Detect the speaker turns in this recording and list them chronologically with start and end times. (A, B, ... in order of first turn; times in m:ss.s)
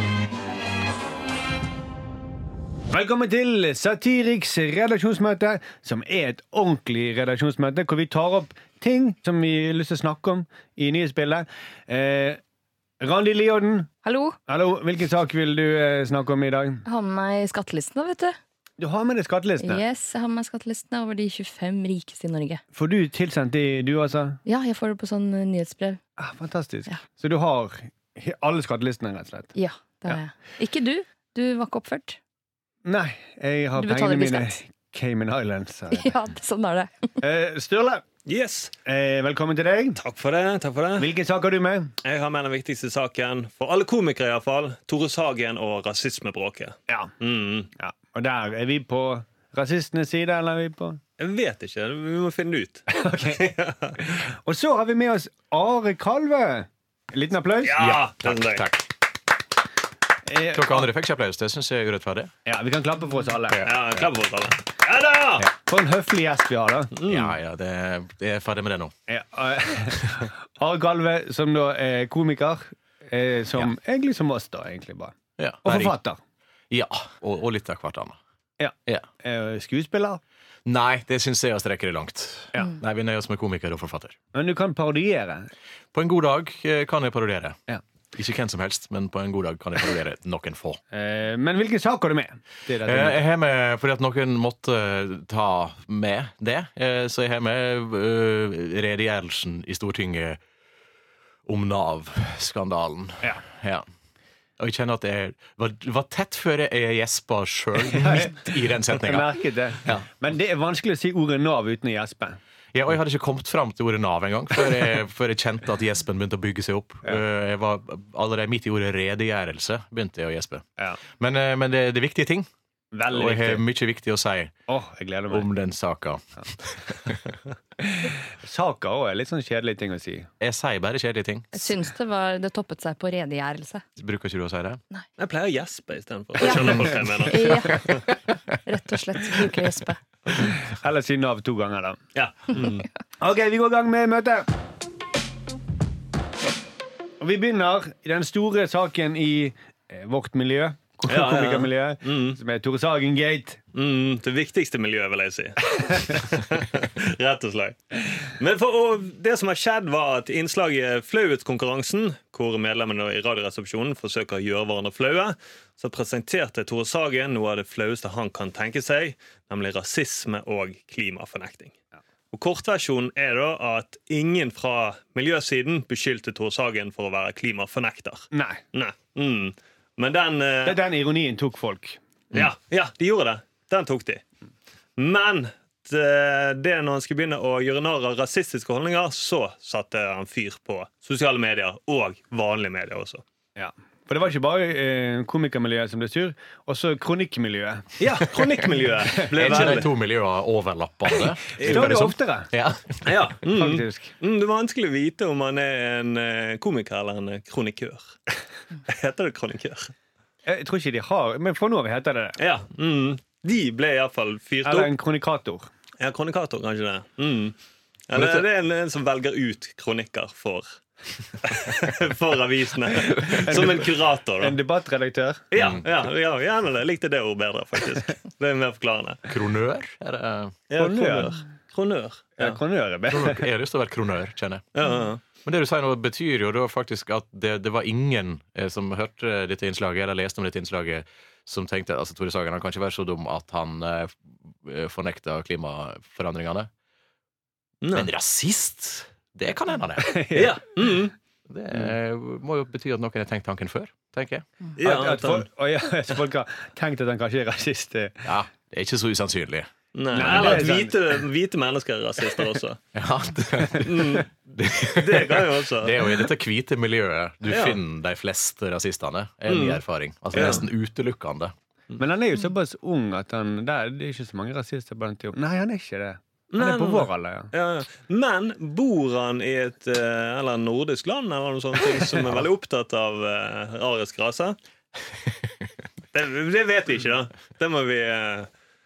0:02.9-0:12.4 A
0:13.0-0:13.9 A
0:14.0-0:14.4 B
0:14.5-0:16.8 A
0:16.8-0:18.4 B
0:18.8-0:19.8 A
0:19.6-0:22.6 B
0:22.7-0:24.4 A
0:24.4-0:26.0 B
0:26.2-0:29.5 A
0:29.5-0:32.2 B
0:32.8-0:36.1 A
0:33.8-0:34.6 B
0:35.9-0:37.1 B
0:37.2-0:38.0 A
0:38.2-0:38.7 C
0:38.8-0:40.0 A
0:40.0-0:41.1 C
0:41.0-0:41.9 A
0:42.0-0:47.7 C
0:46.9-0:47.1 A
0:47.8-0:51.0 A
0:51.2-0:54.0 C
0:52.9-0:53.5 A
0:54.0-0:57.8 A
0:57.6-0:58.7 C
0:57.8-0:58.9 D
1:00.2-1:00.9 A
1:00.5-1:02.3 D
1:02.4-1:03.7 A
1:03.5-1:03.8 D
1:03.6-1:05.5 C
1:05.4-1:06.9 A
1:07.0-1:07.3 C
1:07.0-1:08.9 D
1:09.1-1:16.2 A
1:15.4-1:15.9 D
1:16.7-1:18.2 D
1:18.6-1:20.2 A
1:20.6-1:24.2 D
1:24.3-1:25.5 A
1:25.9-1:27.6 D
1:28.1-1:30.8 D
1:30.9-1:33.2 A
1:32.8-1:40.4 D
1:41.4-1:43.8 D
1:44.6-1:50.0 D
1:47.8-1:52.4 A
1:52.7-2:00.6 D
2:01.2-2:02.5 D
2:02.9-2:03.6 A
2:03.1-2:04.5 D
2:04.7-2:05.5 A
2:05.3-2:07.4 D
2:07.8-2:10.3 A
2:10.4-2:11.7 D
2:11.5-2:13.8 B
2:14.0-2:14.8 D
2:15.2-2:18.0 C
2:16.4-2:17.9 B
2:18.6-2:20.0 B
2:20.3-2:22.0 A
2:22.1-2:22.8 C
2:23.2-2:24.5 A
2:27.2-2:33.6 A
2:31.1-2:32.4 C
2:33.7-2:51.7 C
2:52.3-3:00.8 C
2:58.3-2:58.6 A
3:00.6-3:02.0 A
3:02.3-3:04.2 C
3:05.0-3:13.2 C
3:13.6-3:18.1 A
3:18.0-3:19.9 C
3:19.2-3:19.9 A
3:19.3-3:23.0 D
3:21.2-3:22.5 A
3:21.6-3:21.9 C
3:23.0-3:28.1 C
3:23.4-3:24.1 A
3:28.9-3:29.9 C
3:30.4-3:32.4 A
3:32.4-3:34.9 C
3:34.6-3:35.7 A
3:36.0-3:37.6 C
3:38.1-3:40.8 C
3:38.1-3:38.4 D
3:41.4-3:44.6 C
3:42.9-3:45.5 A
3:45.5-3:49.3 C
3:45.6-3:45.8 D
3:49.3-3:50.6 D
3:50.7-3:52.6 C
3:50.7-3:51.4 A
3:52.4-3:53.4 A
3:53.1-3:54.7 D
3:54.7-3:55.2 C
3:55.4-4:06.7 D
4:07.8-4:08.1 C
4:07.9-4:10.4 D
4:10.0-4:10.6 A
4:10.3-4:11.1 C
4:11.5-4:14.4 D
4:14.8-4:15.5 C
4:14.8-4:18.3 A
4:18.2-4:20.6 D
4:19.9-4:22.8 C
4:20.1-4:21.0 A
4:22.9-4:31.5 D
4:23.7-4:24.3 C
4:24.9-4:26.3 C
4:27.5-4:27.8 C
4:29.5-4:29.8 C
4:30.3-4:30.6 C
4:32.0-4:37.5 A
4:36.5-4:44.6 C
4:46.1-4:48.5 C